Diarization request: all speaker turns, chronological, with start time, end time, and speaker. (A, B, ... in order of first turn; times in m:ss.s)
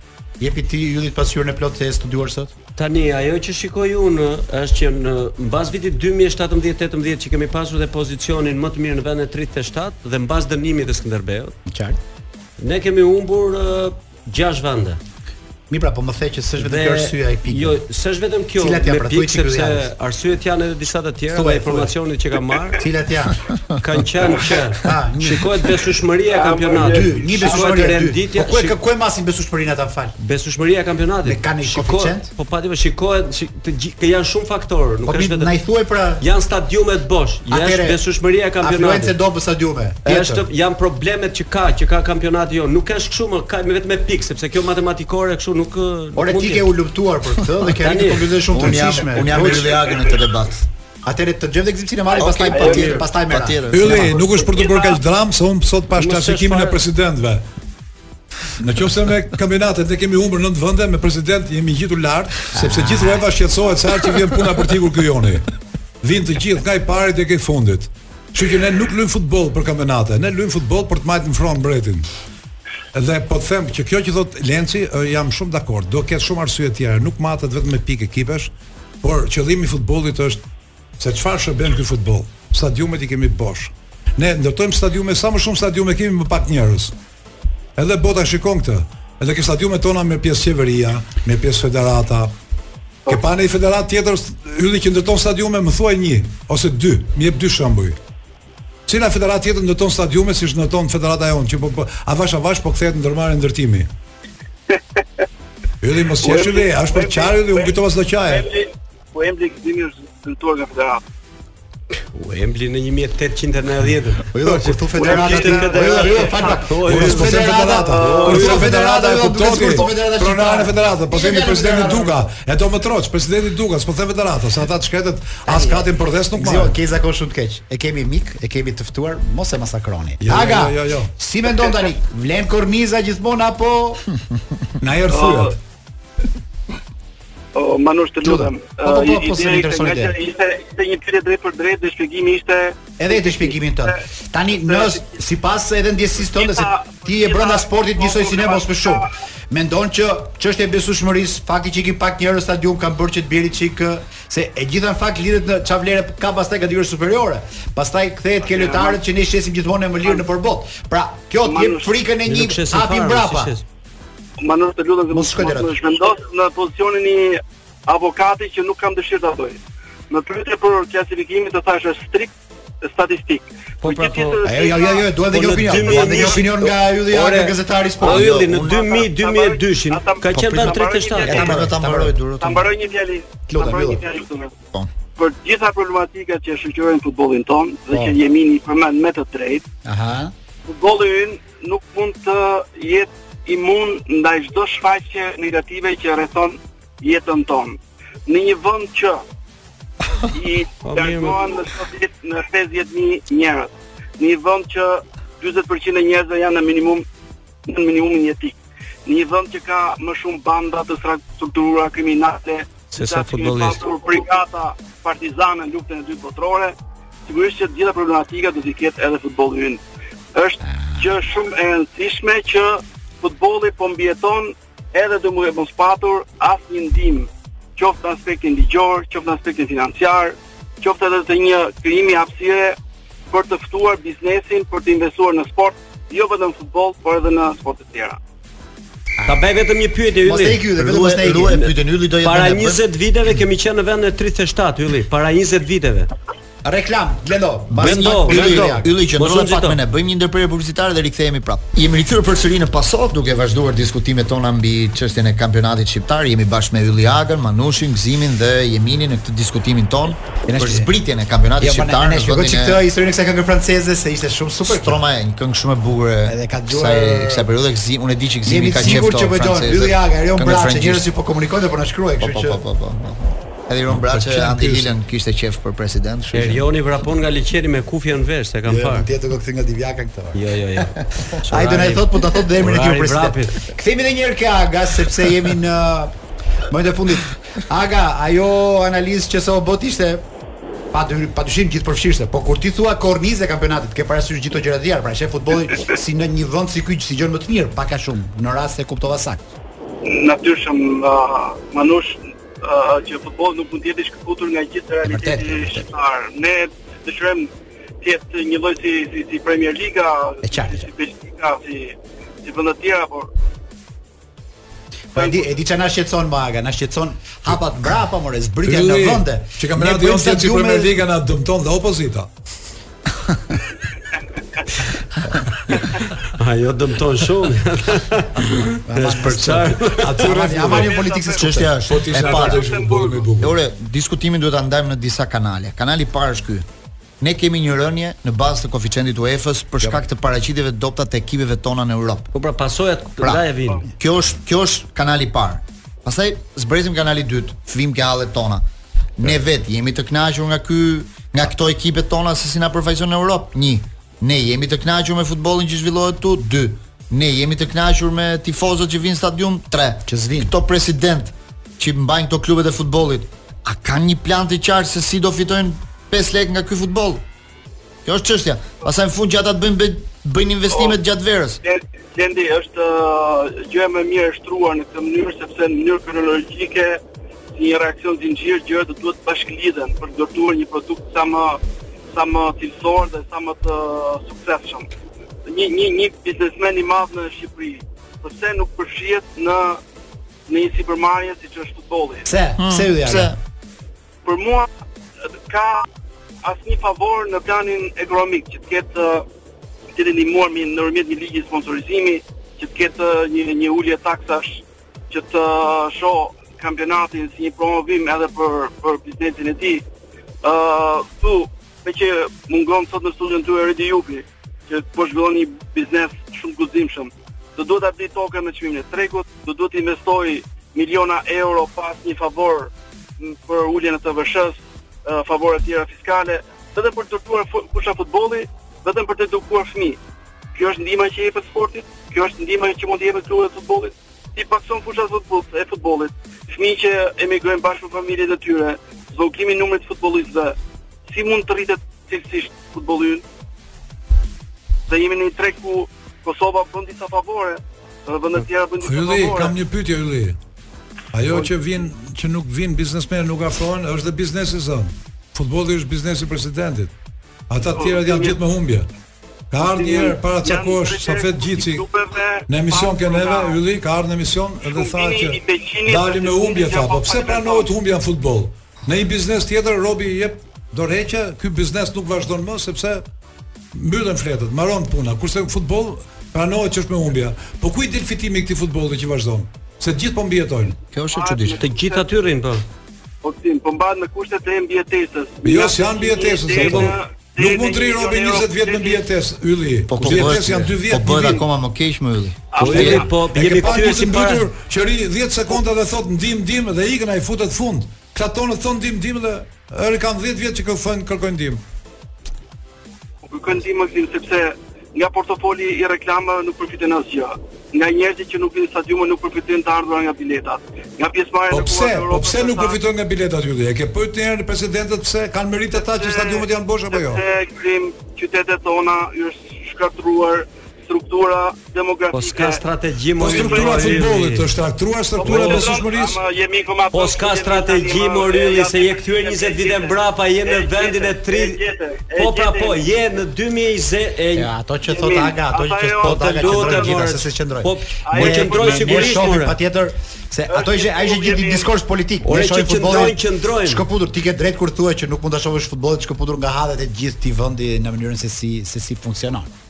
0:00.4-0:02.5 A
0:02.8-0:11.6 B
0:11.7-0:12.0 A
0:12.6-0:15.0 B
0:15.7-0:17.8 A
0:16.6-0:22.8 B
0:18.6-0:19.9 A
0:21.3-0:22.0 A
0:22.8-0:23.4 A
0:23.8-0:28.8 B
0:24.8-0:25.7 A
0:26.3-0:28.0 C
0:26.7-0:30.2 A
0:30.2-0:35.5 B
0:31.2-0:32.3 A
0:35.0-0:36.3 A
0:36.2-0:39.2 B
0:37.5-0:38.0 A
0:38.6-0:40.5 A
0:40.0-0:46.7 B
0:46.2-0:49.8 A
0:47.8-0:48.4 B
0:48.5-0:50.7 D
0:49.5-0:50.1 C
0:51.0-0:53.6 A
0:52.1-0:54.2 D
0:52.5-0:53.0 C
0:53.7-0:57.4 E
0:53.9-0:55.0 C
0:56.0-0:56.8 B
0:58.6-1:05.5 E
1:02.5-1:03.2 A
1:06.0-1:12.1 E
1:12.9-1:18.5 E
1:19.0-1:20.4 E
1:21.0-1:26.9 E
1:27.8-1:32.3 E
1:33.1-1:38.0 E
1:38.9-1:43.9 E
1:45.8-1:48.5 E
1:46.2-1:51.0 C
1:52.1-1:57.4 B
1:54.3-2:02.3 A
1:55.0-1:58.7 C
1:56.8-2:06.8 E
1:58.1-1:58.7 B
2:05.5-2:14.0 A
2:10.2-2:11.1 E
2:14.8-2:15.6 E
2:15.1-2:15.5 C
2:17.5-2:24.0 C
2:18.2-2:20.2 A
2:23.0-2:43.5 A
2:24.5-2:25.1 C
2:26.3-2:29.1 C
2:38.4-2:39.0 C
2:41.4-2:41.9 C
2:42.3-2:43.6 B
2:44.4-2:52.3 C
2:45.1-2:45.8 A
2:52.8-2:55.1 C
2:53.8-2:54.4 B
2:54.4-2:58.4 A
2:55.3-3:01.6 B
2:55.7-2:56.5 C
2:58.0-2:58.8 D
2:58.6-3:01.6 C
3:00.4-3:00.6 D
3:01.2-3:02.6 D
3:01.2-3:02.1 A
3:02.4-3:04.5 C
3:03.5-3:04.0 A
3:05.2-3:09.6 C
3:09.8-3:10.3 A
3:10.7-3:19.2 C
3:20.2-3:27.1 C
3:20.8-3:21.4 B
3:27.7-3:36.8 C
3:32.9-3:33.8 B
3:37.3-3:39.8 C
3:40.3-3:52.8 C
3:53.3-3:58.2 C
3:59.2-4:00.6 B
4:00.2-4:01.7 A
4:00.8-4:02.8 D
4:01.5-4:06.1 B
4:06.6-4:08.9 A
4:07.8-4:09.8 B
4:07.8-4:22.8 D
4:20.5-4:20.9 A
4:21.6-4:25.0 A
4:24.7-4:31.1 D
4:26.3-4:27.5 A
4:28.4-4:32.6 A
4:32.2-4:36.6 D
4:34.0-4:34.9 E
4:36.3-4:39.1 B
4:38.7-4:40.4 A
4:40.4-4:43.6 B
4:41.5-4:46.1 A
4:46.7-4:50.2 A
4:50.9-4:59.5 A
5:00.0-5:07.5 C
5:05.0-5:05.9 A
5:08.0-5:13.3 C
5:10.4-5:10.9 A
5:15.1-5:21.0 A
5:15.2-5:15.6 C
5:18.6-5:22.3 E
5:25.7-5:30.5 B
5:28.9-5:31.7 A
5:29.0-5:31.0 E
5:30.7-5:33.3 C
5:31.4-5:32.6 D
5:31.9-5:33.6 E
5:33.4-5:36.7 D
5:37.2-5:42.3 D
5:42.3-5:43.8 B
5:43.2-5:48.6 D
5:49.2-6:07.2 D
6:00.1-6:00.5 A
6:08.0-6:11.6 D
6:10.7-6:11.0 C
6:11.6-6:17.0 C
6:17.5-6:21.6 C
6:22.1-6:24.9 C
6:25.5-6:29.8 C
6:30.5-6:32.3 C
6:32.3-6:33.3 A
6:32.6-6:33.4 D
6:34.2-6:34.7 C
6:35.5-6:35.9 C
6:36.4-6:39.2 C
6:39.9-6:49.8 C
6:50.4-7:10.0 C
7:10.5-7:20.6 C
7:21.1-7:23.2 C
7:24.9-7:29.6 C
7:28.8-7:30.4 E
7:31.1-7:36.9 E
7:37.5-7:38.9 E
7:37.7-7:38.4 C
7:39.5-7:41.9 E
7:39.6-7:43.6 C
7:42.5-7:53.0 E
7:44.7-7:47.7 C
7:53.7-8:00.8 E
8:00.9-8:01.6 D
8:01.1-8:02.1 C
8:01.6-8:02.6 B
8:03.2-8:09.1 C
8:05.4-8:11.4 E
8:06.5-8:07.0 B
8:09.9-8:13.1 D
8:12.5-8:13.2 C
8:12.6-8:14.5 B
8:13.3-8:21.6 E
8:23.2-8:32.8 C
8:31.5-8:37.2 E
8:35.8-8:42.6 C
8:42.1-8:44.5 B
8:43.2-8:46.2 E
8:43.2-8:44.0 C
8:45.2-8:52.8 C
8:45.2-8:45.7 B
8:46.9-8:51.6 B
8:52.2-8:54.5 B
8:54.3-9:09.5 A
8:54.9-8:57.0 C
8:56.0-8:59.6 B
8:58.1-8:59.4 C
9:00.5-9:01.7 C
9:02.2-9:03.8 B